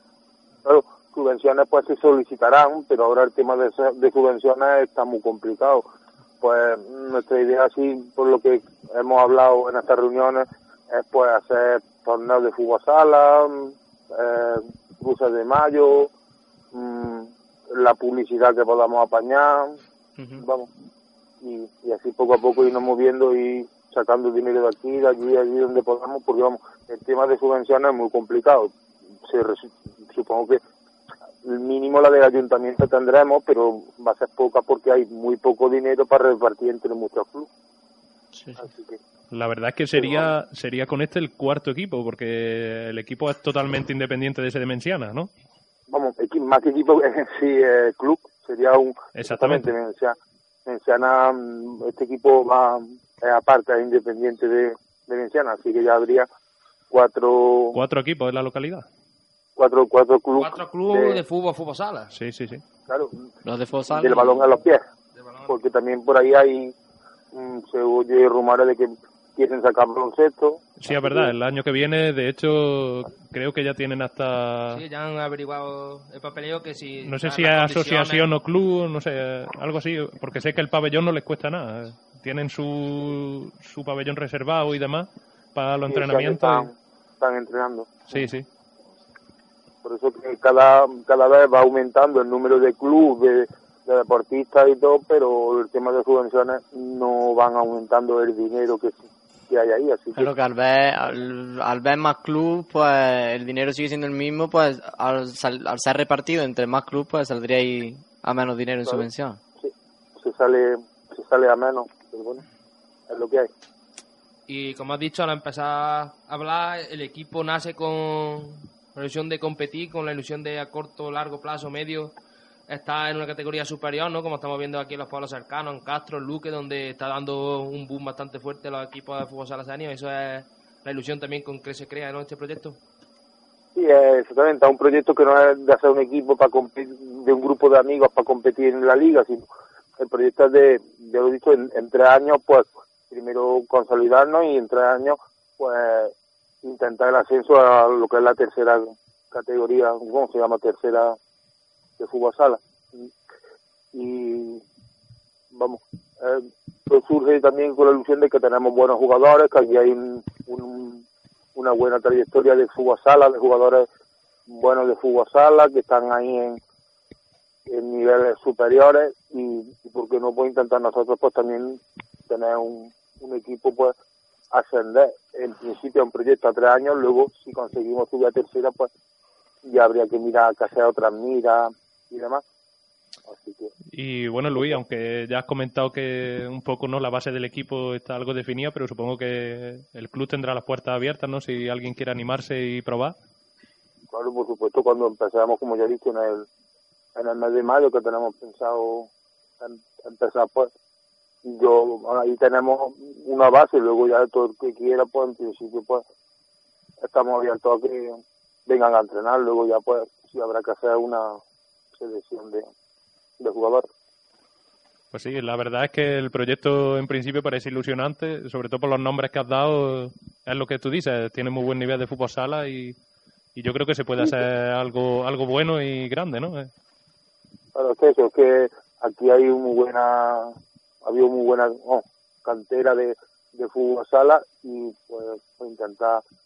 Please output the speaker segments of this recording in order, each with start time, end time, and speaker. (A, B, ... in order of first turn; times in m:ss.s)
0:00.6-0:05.9 A
0:06.4-0:16.1 A
0:16.7-0:19.8 A
0:20.4-0:20.7 A
0:21.4-0:28.7 A
0:29.2-0:30.6 A
0:31.4-0:37.5 A
0:38.6-0:39.0 A
0:39.3-0:45.3 B
0:40.0-0:40.3 A
0:45.9-0:56.3 A
0:49.2-0:49.7 B
0:56.9-0:57.8 A
0:57.7-0:58.9 B
0:59.6-1:01.2 A
1:00.4-1:02.1 C
1:02.1-1:02.6 B
1:02.9-1:03.2 A
1:03.4-1:04.4 D
1:03.9-1:04.8 A
1:05.2-1:05.5 C
1:05.5-1:06.7 A
1:07.3-1:11.3 A
1:10.8-1:14.8 B
1:14.7-1:18.2 C
1:17.0-1:26.7 B
1:25.9-1:28.2 A
1:28.1-1:28.5 B
1:29.8-1:39.0 A
1:39.5-1:40.3 A
1:40.2-1:49.4 D
1:49.6-1:52.4 A
1:53.1-1:53.5 A
1:54.5-2:02.1 C
2:02.7-2:12.8 C
2:13.8-2:19.5 A
2:20.0-2:31.2 A
2:32.0-2:32.6 A
2:33.9-2:34.6 A
2:35.5-2:41.0 A
2:41.6-2:43.9 A
2:44.5-2:46.6 A
2:47.7-2:53.9 A
2:54.5-2:58.9 A
2:59.6-3:02.4 A
3:03.3-3:03.7 A
3:03.9-3:13.2 B
3:14.1-3:16.5 A
3:17.2-3:19.1 A
3:19.6-3:20.7 A
3:21.4-3:26.0 A
3:27.0-3:31.4 A
3:32.0-3:32.7 A
3:33.4-3:33.8 A
3:35.1-3:43.0 B
3:43.6-3:46.7 B
3:47.8-3:50.5 A
3:51.0-3:56.2 A